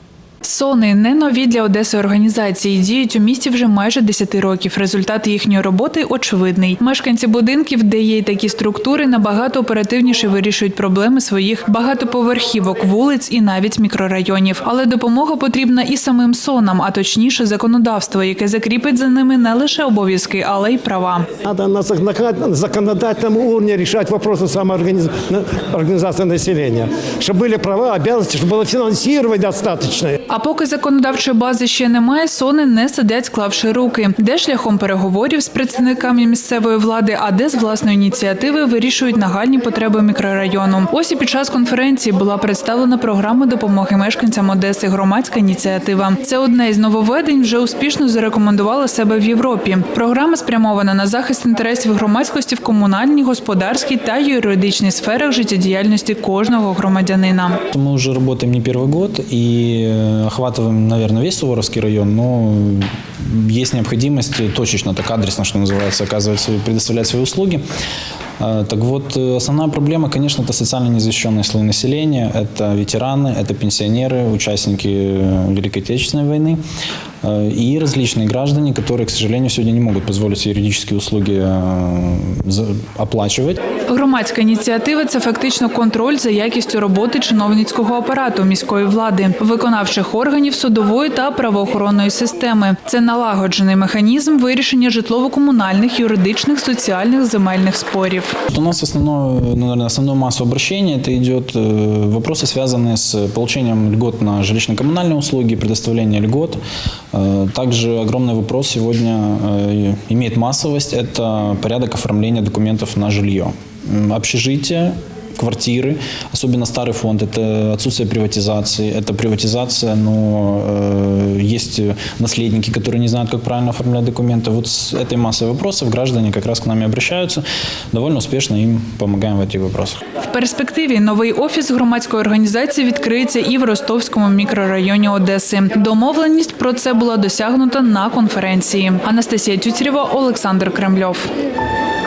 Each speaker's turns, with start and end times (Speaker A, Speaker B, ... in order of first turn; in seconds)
Speaker A: 0.4-21.3, 30.3-57.6, 83.9-98.3, 130.3-141.3
Speaker B: 21.4-30.1
Speaker C: 57.7-67.6, 68.4-76.6, 77.2-83.6, 98.5-106.6, 107.1-130.0